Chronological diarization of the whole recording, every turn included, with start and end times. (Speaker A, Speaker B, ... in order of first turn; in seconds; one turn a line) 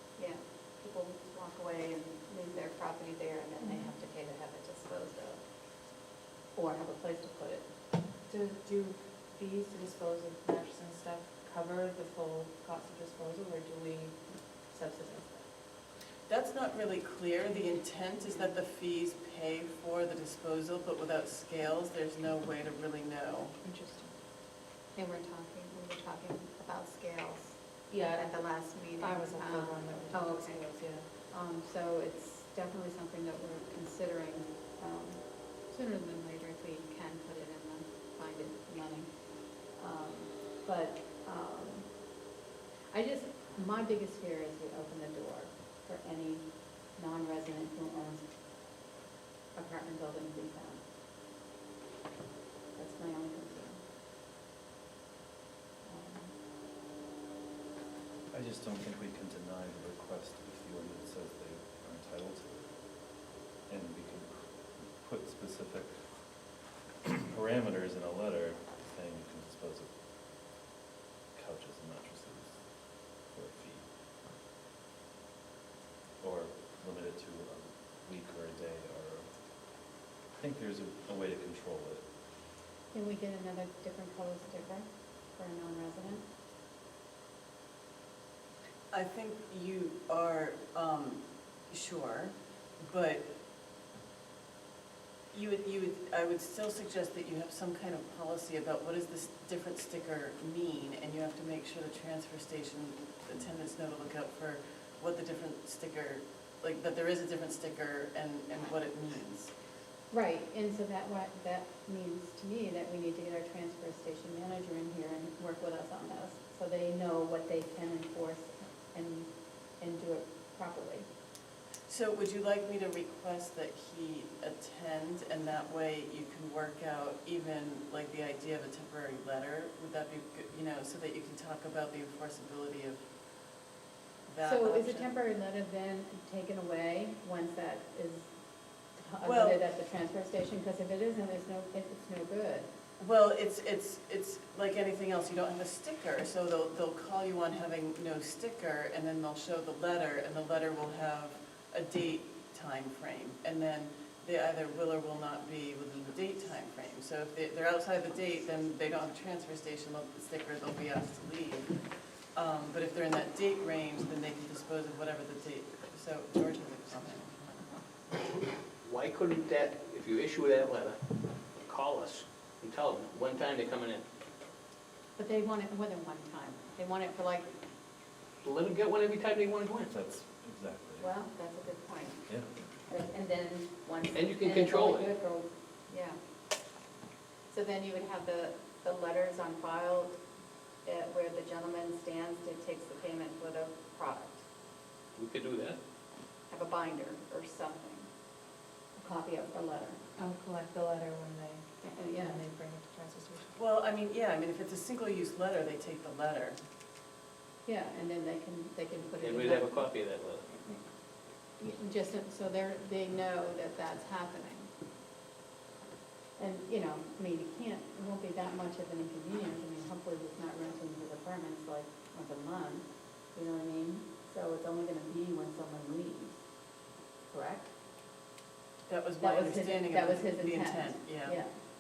Speaker A: 0.2-5.4
Speaker B: 3.6-3.9
Speaker A: 6.5-7.7
Speaker B: 8.3-14.2
Speaker B: 14.7-15.4
Speaker C: 16.3-23.6
Speaker B: 23.6-24.2
Speaker A: 24.9-30.6
Speaker B: 27.9-28.4
Speaker B: 29.0-31.1
Speaker A: 31.2-39.1
Speaker A: 39.7-41.9
Speaker A: 42.9-48.2
Speaker A: 49.5-50.8
Speaker A: 52.8-53.8
Speaker A: 55.8-56.3
Speaker D: 58.3-62.7
Speaker D: 63.7-65.9
Speaker D: 67.0-69.9
Speaker D: 71.3-72.6
Speaker D: 73.2-73.8
Speaker D: 76.2-79.3
Speaker D: 80.3-82.0
Speaker A: 82.9-86.2
Speaker C: 88.9-93.3
Speaker C: 95.3-109.5
Speaker A: 110.1-121.1
Speaker C: 121.9-133.1
Speaker C: 134.3-135.1
Speaker A: 134.4-138.3
Speaker A: 139.0-142.7
Speaker C: 139.2-139.6
Speaker C: 143.0-161.8
Speaker C: 162.3-167.6
Speaker E: 168.8-171.0
Speaker E: 171.7-174.0
Speaker A: 175.2-177.6
Speaker E: 178.4-179.9
Speaker D: 179.9-181.1
Speaker A: 181.0-182.2
Speaker A: 182.9-186.2
Speaker E: 184.1-185.1
Speaker A: 187.5-190.2
Speaker A: 190.8-194.4
Speaker E: 195.2-195.8
Speaker A: 196.5-198.1
Speaker A: 199.0-200.0
Speaker B: 200.2-203.5
Speaker A: 201.8-202.4
Speaker C: 203.6-206.6
Speaker A: 207.7-209.9
Speaker E: 209.2-210.5
Speaker A: 211.6-214.7
Speaker A: 216.4-226.4
Speaker A: 227.3-227.7
Speaker C: 228.9-231.4
Speaker A: 229.2-231.5